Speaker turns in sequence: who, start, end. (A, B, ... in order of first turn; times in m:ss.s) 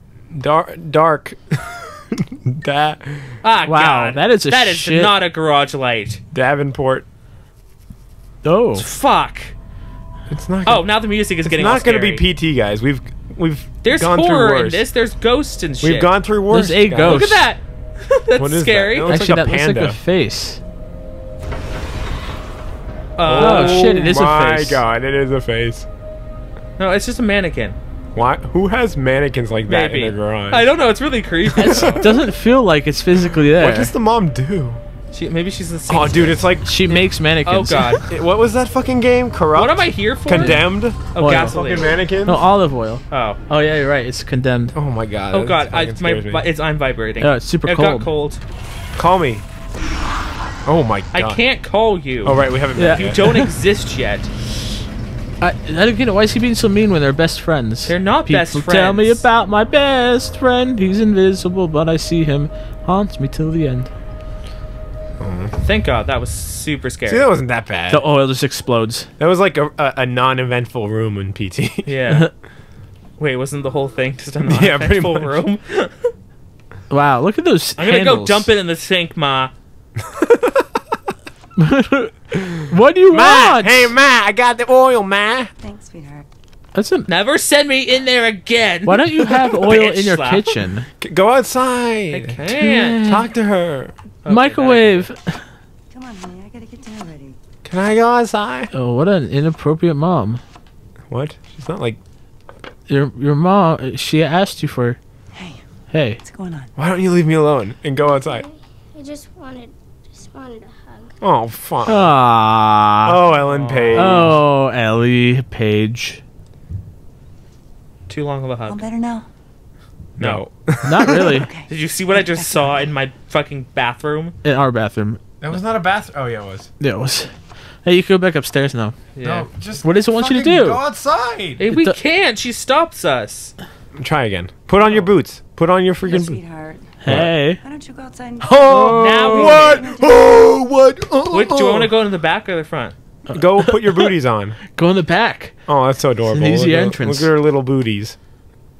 0:00.3-0:03.4 A
0:03.4-0:06.2 B
0:03.7-0:05.2 C
0:06.3-0:07.0 A
0:08.4-0:08.8 C
0:08.7-0:09.5 B
0:10.3-0:14.8 A
0:10.6-0:12.2 B
0:13.8-0:16.1 B
0:15.8-0:17.4 A
0:16.5-0:17.4 C
0:17.0-0:19.2 B
0:18.4-0:20.0 A
0:19.1-0:20.6 C
0:23.2-0:23.9 B
0:23.2-0:25.9 A
0:23.4-0:24.8 C
0:26.8-0:27.8 B
0:28.1-0:30.7 A
0:29.6-0:32.1 B
0:31.5-0:32.2 A
0:31.7-0:33.9 C
0:33.6-0:34.8 A
0:35.1-0:38.0 B
0:35.9-0:36.7 A
0:36.6-0:38.0 C
0:38.1-0:42.4 A
0:39.5-0:42.0 B
0:40.3-0:40.6 C
0:41.2-0:41.5 C
0:42.2-0:44.8 C
0:43.1-0:43.4 B
0:44.7-0:46.5 A
0:45.3-0:48.4 B
0:47.2-0:48.1 C
0:49.0-0:49.4 A
0:50.6-0:51.4 A
0:51.1-0:54.3 B
0:52.2-0:53.2 A
0:52.7-0:53.5 C
0:55.4-1:03.9 C
0:57.8-0:59.2 B
1:05.2-1:05.5 A
1:05.6-1:07.3 B
1:07.0-1:08.1 A
1:07.9-1:09.1 C
1:09.2-1:11.9 A
1:11.8-1:12.3 B
1:13.2-1:16.1 B
1:14.4-1:15.3 A
1:16.9-1:18.5 C
1:17.8-1:19.5 B
1:20.1-1:20.6 A
1:21.6-1:23.9 C
1:22.5-1:25.5 A
1:25.6-1:26.2 D
1:26.7-1:27.1 C
1:27.1-1:30.5 B
1:28.8-1:30.9 C
1:31.0-1:32.4 A
1:32.1-1:33.0 B
1:32.6-1:33.3 C
1:33.0-1:33.9 A
1:34.2-1:35.1 B
1:34.2-1:35.5 C
1:35.9-1:37.4 D
1:37.6-1:38.7 A
1:38.7-1:40.4 C
1:41.1-1:42.0 A
1:42.9-1:45.0 C
1:45.3-1:45.6 D
1:45.9-1:46.2 C
1:46.2-1:46.7 D
1:46.8-1:48.4 A
1:48.0-1:51.2 E
1:51.2-1:52.1 A
1:51.8-1:53.2 C
1:53.0-1:54.4 A
1:53.5-1:54.3 B
1:53.9-1:56.2 C
1:58.1-1:58.9 B
1:58.6-1:59.3 D
2:00.2-2:01.5 A
2:00.2-2:00.4 B
2:00.8-2:01.5 C
2:01.3-2:02.7 D
2:01.6-2:04.3 B
2:04.4-2:05.2 C
2:05.4-2:06.7 A
2:06.8-2:07.3 C
2:07.8-2:08.9 C
2:09.1-2:09.5 B
2:09.2-2:11.7 A
2:09.8-2:10.8 C
2:11.6-2:13.5 B
2:11.7-2:12.0 C
2:13.9-2:16.4 A
2:16.0-2:20.1 D
2:17.0-2:17.6 C
2:17.0-2:17.3 A
2:18.4-2:19.6 C
2:18.4-2:21.9 A
2:18.7-2:19.9 B
2:21.3-2:22.9 B
2:23.3-2:24.6 A
2:23.6-2:24.1 C
2:24.7-2:25.6 C
2:25.7-2:28.2 A
2:26.3-2:27.3 C